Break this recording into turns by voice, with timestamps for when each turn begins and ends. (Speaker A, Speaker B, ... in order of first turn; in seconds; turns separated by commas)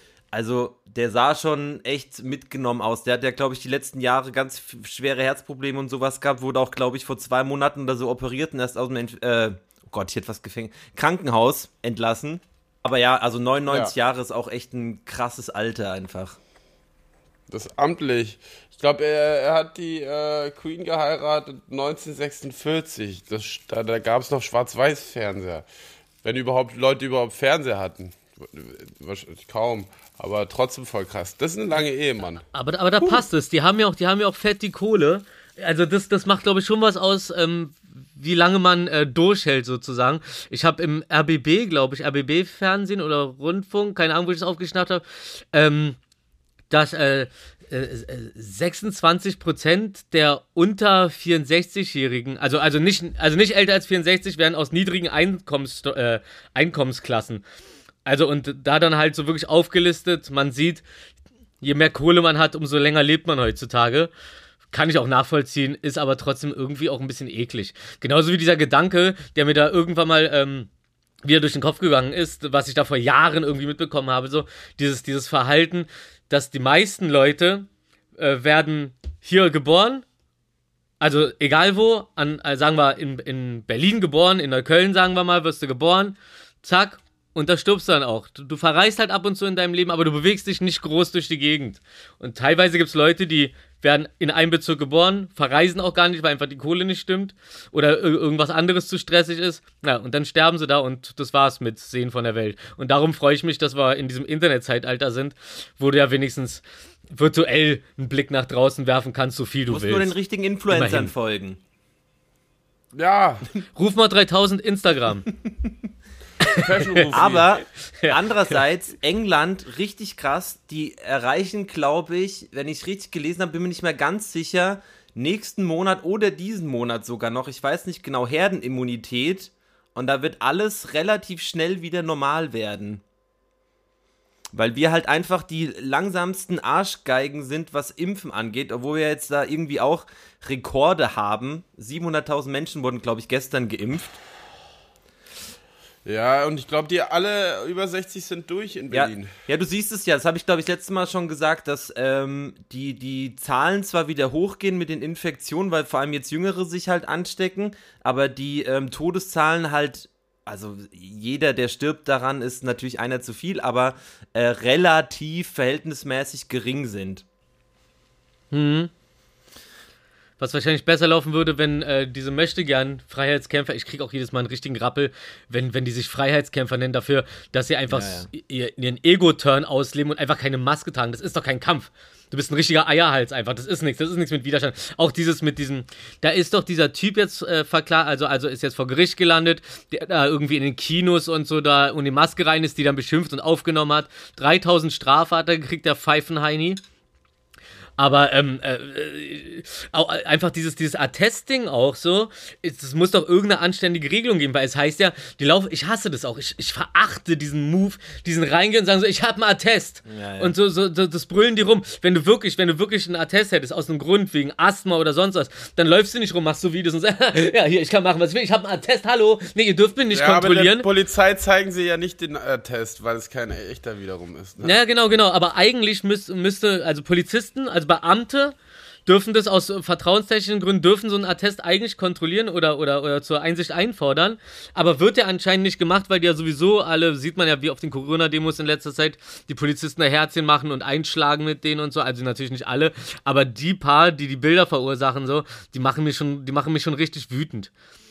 Speaker A: 0.3-16.4, Speaker B: 13.7-13.9, Speaker B: 17.5-25.6, Speaker B: 26.2-32.4, Speaker C: 32.5-46.0, Speaker C: 46.7-57.4, Speaker C: 58.0-60.8, Speaker C: 61.6-64.1, Speaker C: 64.7-70.7, Speaker C: 71.2-77.7, Speaker C: 78.2-80.0, Speaker C: 81.0-110.1, Speaker A: 109.7-111.6, Speaker C: 110.7-111.1, Speaker B: 112.9-113.4, Speaker C: 113.8-115.3, Speaker C: 116.4-116.9, Speaker B: 116.4-117.5, Speaker A: 117.1-133.0, Speaker C: 118.0-118.5, Speaker A: 134.5-144.2, Speaker B: 146.0-149.3, Speaker A: 148.9-167.2, Speaker C: 168.5-168.9, Speaker C: 170.4-196.8, Speaker A: 177.9-178.3, Speaker C: 198.0-220.9, Speaker A: 210.1-210.6, Speaker B: 220.1-224.8, Speaker C: 224.6-228.5, Speaker C: 229.1-247.7